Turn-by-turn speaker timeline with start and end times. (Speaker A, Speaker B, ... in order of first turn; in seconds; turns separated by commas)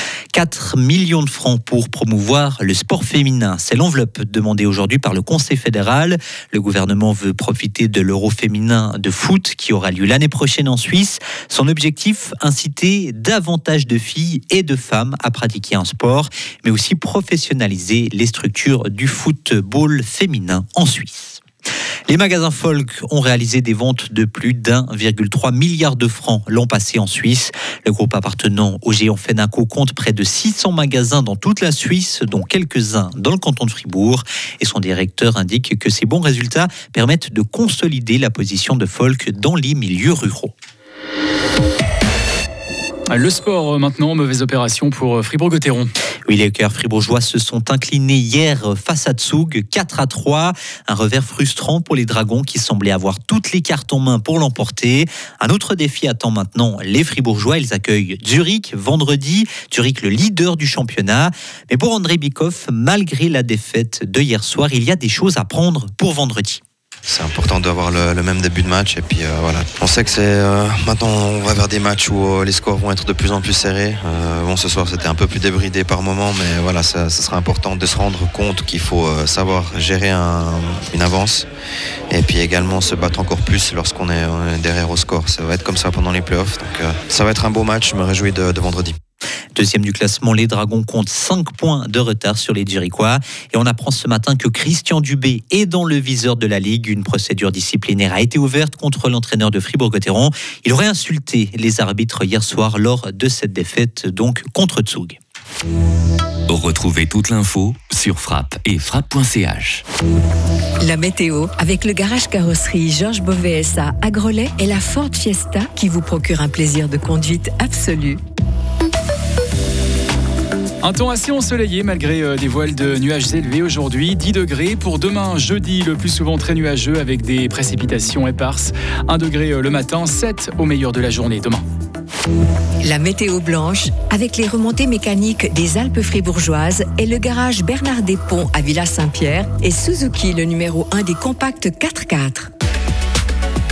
Speaker A: 0.3-21.4, Speaker A: 22.1-40.5, Speaker B: 43.1-45.9, Speaker A: 46.3-66.6, Speaker C: 67.1-81.5, Speaker C: 82.1-89.0, Speaker A: 89.5-105.2, Speaker D: 106.5-109.8, Speaker E: 110.8-118.2, Speaker B: 120.8-131.6, Speaker E: 132.8-142.5